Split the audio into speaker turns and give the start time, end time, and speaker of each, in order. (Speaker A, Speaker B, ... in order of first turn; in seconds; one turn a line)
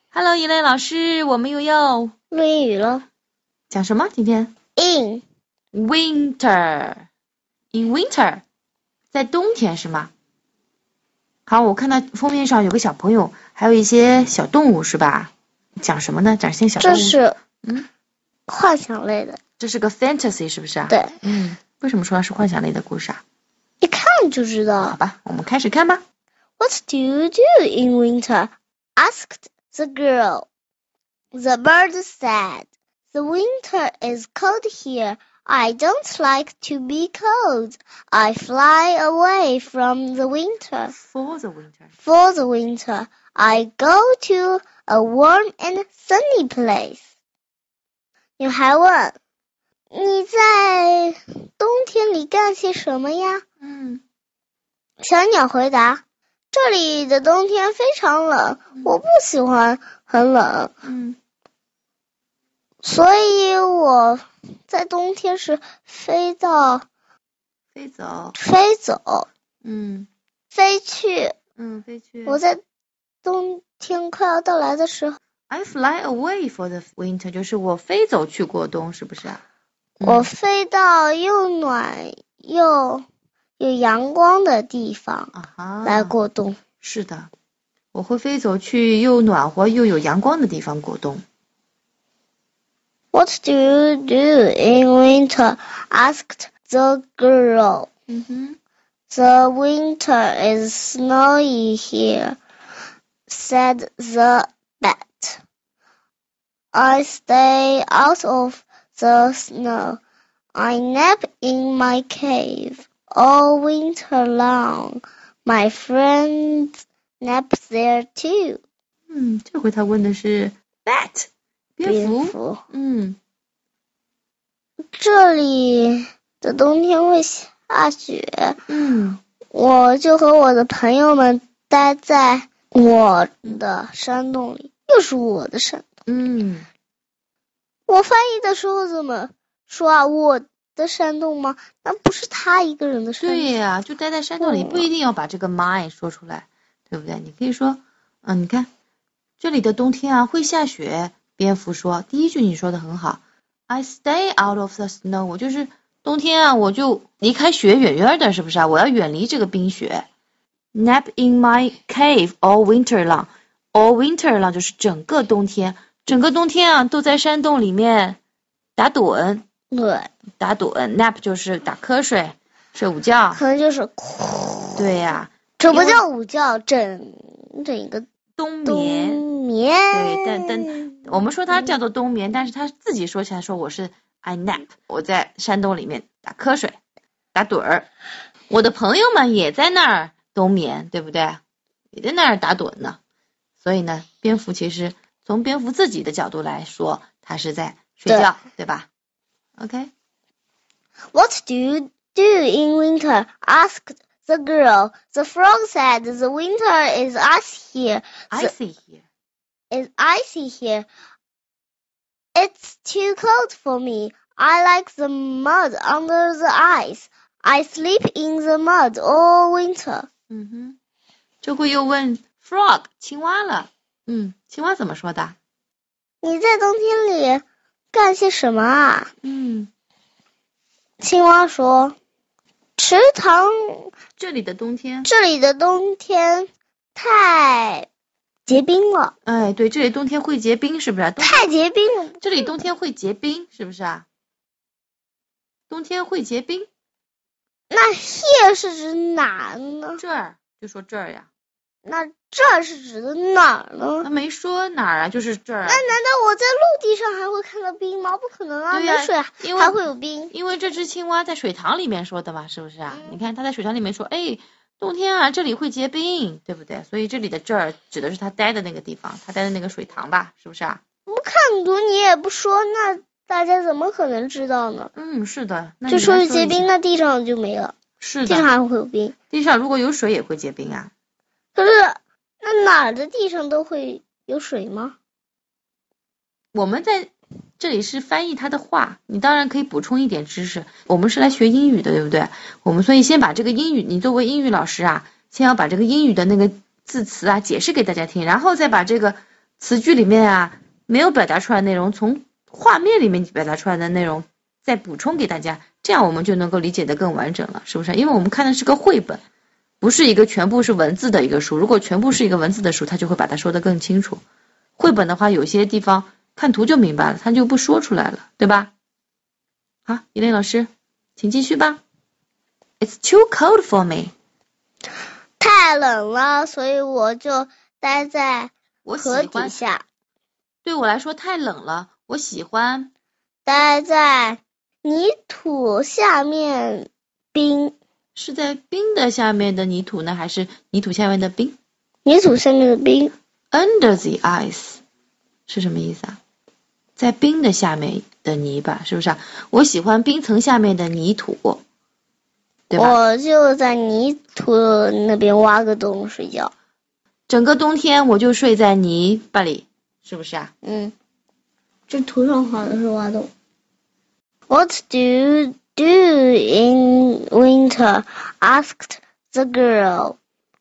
Speaker A: 0.1-2.1
Speaker B: 2.3-3.0
Speaker A: 3.7-4.5
Speaker B: 4.8-5.2
Speaker A: 5.7-7.0
Speaker A: 7.7-8.4
Speaker A: 9.1-10.1
Speaker A: 11.5-17.9
Speaker B: 16.8-17.4
Speaker B: 18.5-19.4
Speaker A: 19.6-23.2
Speaker B: 20.9-21.1
Speaker B: 23.8-25.0
Speaker A: 24.8-26.0
Speaker B: 26.6-30.5
Speaker B: 31.3-40.9
Speaker A: 40.9-41.9
Speaker B: 42.0-47.0
Speaker B: 48.4-49.2
Speaker B: 49.9-53.4
Speaker A: 53.6-54.0
Speaker B: 55.0-56.0
Speaker B: 56.5-60.7
Speaker A: 60.8-61.2
Speaker B: 62.8-66.8
Speaker A: 67.7-68.3
Speaker B: 68.3-69.3
Speaker A: 69.6-70.1
Speaker B: 70.5-71.3
Speaker A: 71.6-72.4
Speaker B: 72.3-72.6
Speaker B: 73.2-75.2
Speaker A: 75.5-79.4
Speaker A: 80.0-80.3
Speaker B: 80.0-83.0
Speaker B: 83.6-85.3
Speaker A: 85.3-86.1
Speaker B: 85.8-86.6
Speaker A: 86.8-87.3
Speaker A: 87.9-91.2
Speaker B: 93.1-97.9
Speaker A: 98.1-98.6
Speaker B: 99.1-102.4
Speaker B: 103.3-105.4
Speaker B: 106.7-110.0
Speaker B: 110.5-118.6
Speaker A: 119.1-123.2
Speaker B: 121.8-122.6
Speaker B: 124.9-128.6
Speaker A: 128.7-129.2
Speaker B: 129.5-135.9
Speaker A: 136.1-136.7
Speaker B: 137.9-143.5
Speaker A: 143.2-148.7
Speaker B: 144.4-144.9
Speaker A: 149.4-160.1
Speaker A: 160.7-168.2
Speaker A: 168.8-169.4
Speaker B: 169.7-170.1
Speaker A: 170.4-173.4
Speaker B: 173.3-178.1
Speaker A: 174.8-176.0
Speaker A: 178.4-179.2
Speaker B: 178.7-181.7
Speaker A: 179.9-186.8
Speaker A: 187.3-187.9
Speaker A: 188.5-191.4
Speaker A: 191.9-193.0
Speaker A: 193.6-198.9
Speaker B: 198.1-198.3
Speaker A: 199.6-199.9
Speaker B: 201.1-208.5
Speaker A: 208.3-209.0
Speaker B: 209.7-210.9
Speaker B: 212.3-220.1
Speaker A: 220.3-220.8
Speaker A: 221.4-225.3
Speaker B: 226.2-229.1
Speaker A: 229.2-229.7
Speaker B: 231.0-231.9
Speaker B: 232.8-233.9
Speaker A: 234.2-235.1
Speaker B: 235.1-237.9
Speaker B: 238.5-239.1
Speaker A: 239.2-241.5
Speaker B: 241.2-242.5
Speaker A: 242.2-244.1
Speaker A: 245.7-246.7
Speaker B: 247.7-250.0
Speaker A: 250.0-251.3
Speaker B: 251.8-254.1
Speaker A: 254.0-255.9
Speaker B: 255.7-260.3
Speaker A: 258.7-259.8
Speaker A: 260.3-270.8
Speaker B: 262.9-263.1
Speaker B: 271.1-274.9
Speaker A: 274.9-276.7
Speaker B: 275.9-279.1
Speaker A: 278.0-278.5
Speaker A: 279.3-280.9
Speaker B: 281.5-284.9
Speaker A: 286.5-309.2
Speaker A: 309.8-314.2
Speaker A: 314.8-318.7
Speaker A: 319.9-321.8
Speaker A: 322.8-324.1
Speaker B: 325.4-329.8
Speaker A: 328.8-329.6
Speaker A: 330.6-332.9
Speaker B: 333.4-337.7
Speaker A: 338.1-341.6
Speaker B: 342.0-343.1
Speaker A: 343.5-344.8
Speaker A: 345.5-346.2
Speaker A: 346.9-351.6
Speaker A: 352.7-353.0
Speaker B: 352.8-356.5
Speaker A: 357.3-360.5
Speaker B: 360.6-360.9
Speaker B: 361.9-363.3
Speaker B: 364.5-370.2